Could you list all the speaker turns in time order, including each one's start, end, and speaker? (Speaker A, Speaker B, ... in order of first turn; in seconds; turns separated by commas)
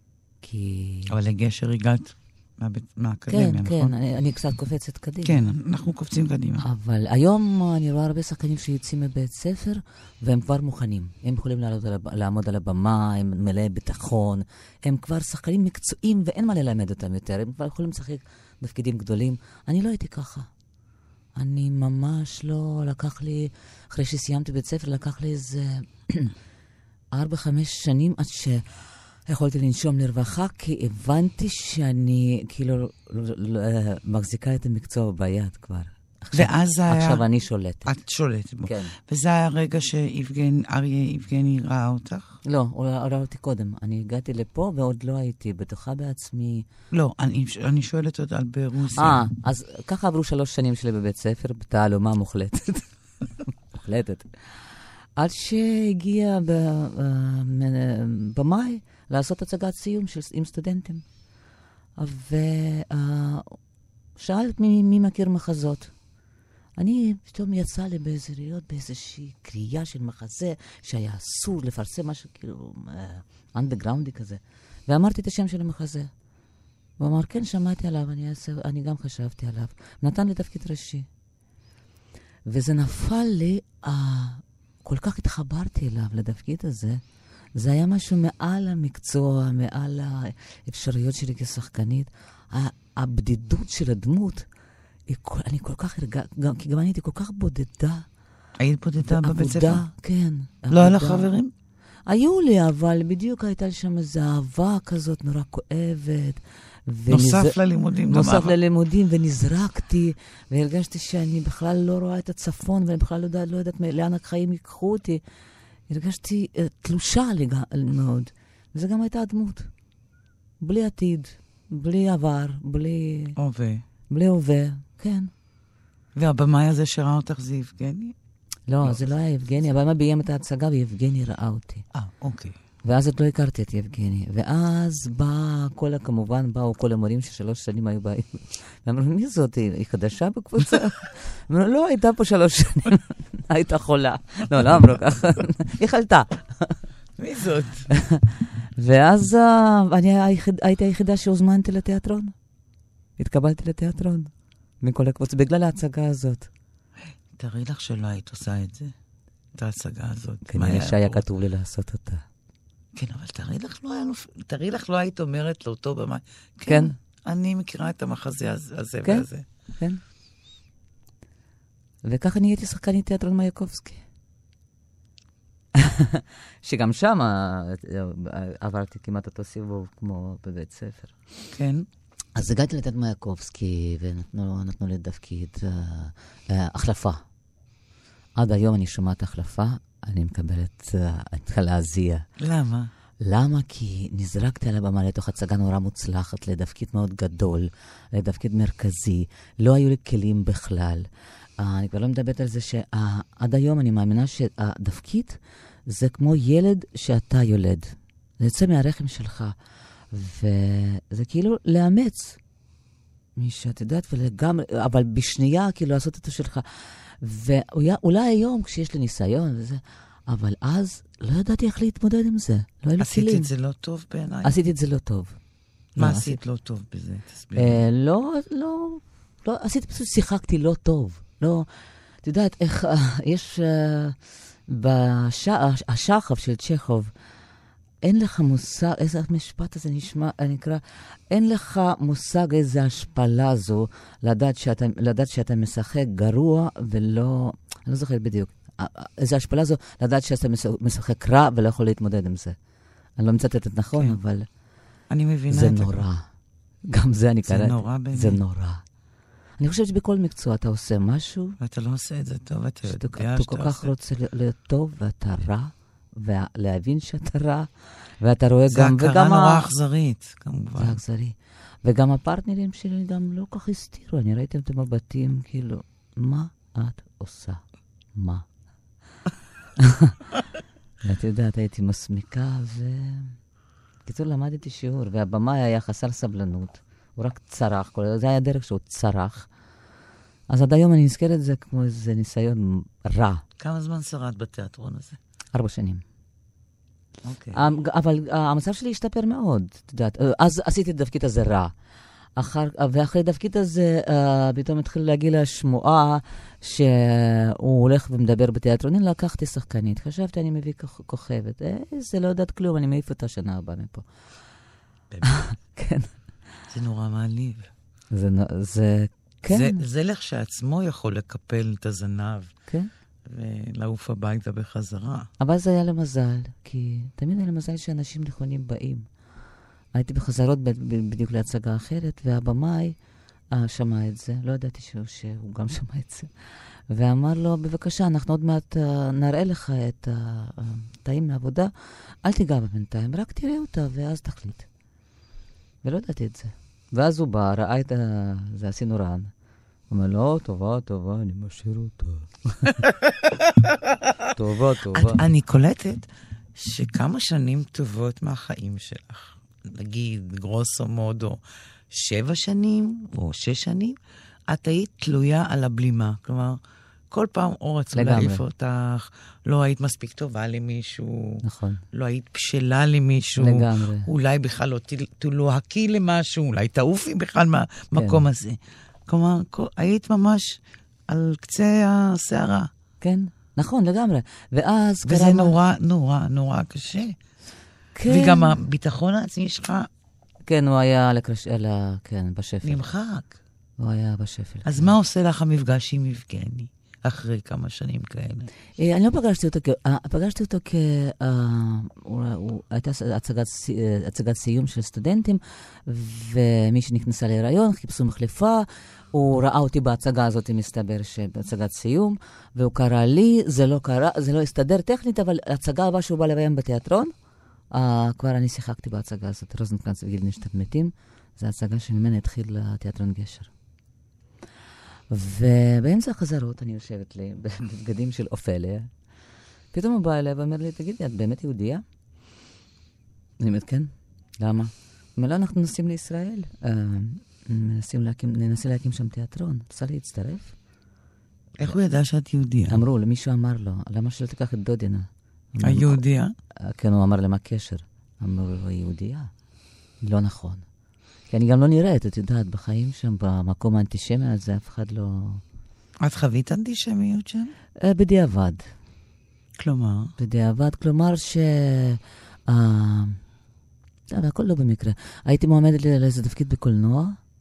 Speaker A: 0.4-1.1, Speaker B: 1.1-3.9, Speaker A: 3.3-5.4, Speaker B: 5.2-6.6, Speaker A: 6.6-20.5, Speaker A: 21.4-26.3, Speaker A: 27.1-37.9, Speaker B: 36.3-37.2, Speaker B: 37.8-42.4, Speaker A: 38.6-39.0, Speaker A: 42.4-46.7, Speaker B: 46.9-49.2, Speaker A: 49.0-52.9, Speaker A: 53.7-54.3, Speaker A: 55.2-61.0, Speaker A: 62.0-63.6, Speaker A: 64.2-65.9, Speaker A: 66.8-76.1, Speaker A: 77.0-81.1, Speaker A: 82.5-87.0, Speaker A: 87.5-94.5, Speaker A: 95.1-98.0, Speaker B: 98.6-99.8, Speaker A: 99.0-101.3, Speaker B: 100.7-101.5, Speaker A: 102.1-107.5, Speaker B: 107.1-108.5, Speaker A: 108.1-115.2, Speaker A: 115.9-119.7, Speaker A: 120.6-123.4, Speaker B: 123.4-123.8, Speaker A: 124.1-125.3, Speaker B: 126.1-128.1, Speaker A: 128.7-131.8, Speaker B: 131.9-132.6, Speaker A: 132.8-146.8, Speaker B: 147.2-147.9, Speaker A: 147.9-148.3, Speaker A: 148.8-152.3, Speaker A: 153.2-156.5, Speaker B: 157.3-158.9, Speaker B: 159.5-161.2, Speaker A: 160.5-162.2, Speaker B: 162.9-169.4, Speaker A: 166.7-166.9, Speaker A: 172.0-174.0, Speaker A: 175.7-181.1, Speaker B: 181.5-181.9, Speaker A: 182.3-187.2, Speaker A: 188.3-192.2, Speaker B: 192.4-192.9, Speaker A: 193.2-201.1, Speaker A: 201.6-209.6, Speaker A: 210.1-212.4, Speaker A: 213.4-223.5, Speaker B: 223.0-224.5, Speaker A: 224.4-225.4, Speaker B: 225.9-227.8, Speaker A: 226.0-226.4, Speaker A: 227.6-231.7, Speaker A: 232.2-237.1, Speaker A: 238.0-252.6, Speaker A: 253.2-254.5, Speaker B: 255.1-256.0, Speaker A: 255.5-256.3, Speaker A: 256.9-258.8, Speaker B: 257.4-258.4, Speaker A: 259.6-261.6, Speaker B: 261.6-263.9, Speaker A: 262.9-267.7, Speaker A: 268.2-269.7, Speaker B: 268.7-271.0, Speaker A: 270.8-277.6, Speaker A: 278.1-278.4, Speaker A: 279.8-280.1, Speaker A: 281.0-283.4, Speaker A: 284.1-289.5, Speaker A: 290.5-293.4, Speaker B: 293.6-295.2, Speaker A: 295.5-296.0, Speaker B: 297.2-297.6, Speaker A: 297.5-301.7, Speaker A: 302.4-314.0, Speaker B: 315.1-315.4, Speaker A: 315.3-316.1, Speaker B: 316.7-317.7, Speaker A: 318.1-319.8, Speaker B: 319.5-322.5, Speaker B: 323.2-325.3, Speaker A: 325.4-329.1, Speaker A: 329.9-332.9, Speaker A: 333.5-336.3, Speaker A: 336.9-341.7, Speaker A: 342.2-344.7, Speaker A: 345.8-349.3, Speaker A: 349.9-352.8, Speaker A: 354.3-355.2, Speaker B: 354.9-364.0, Speaker B: 364.5-366.6, Speaker B: 367.1-382.7, Speaker A: 367.9-368.4, Speaker A: 371.4-371.8, Speaker A: 373.4-374.1, Speaker A: 377.9-378.2, Speaker A: 383.0-385.6, Speaker B: 385.0-387.1, Speaker A: 387.9-388.6, Speaker B: 388.1-389.9, Speaker A: 390.4-392.8, Speaker B: 392.6-393.4, Speaker A: 393.8-394.9, Speaker B: 394.6-398.5, Speaker A: 398.8-417.1, Speaker A: 417.7-423.5, Speaker A: 425.1-428.9, Speaker A: 429.7-431.8, Speaker A: 433.4-440.5, Speaker B: 441.6-442.8, Speaker A: 442.7-446.0, Speaker B: 445.6-446.3, Speaker A: 446.6-449.3, Speaker A: 450.0-450.6, Speaker A: 451.3-455.4, Speaker B: 456.0-457.5, Speaker A: 457.8-458.7, Speaker B: 459.6-460.1, Speaker A: 460.2-463.2, Speaker A: 464.1-467.2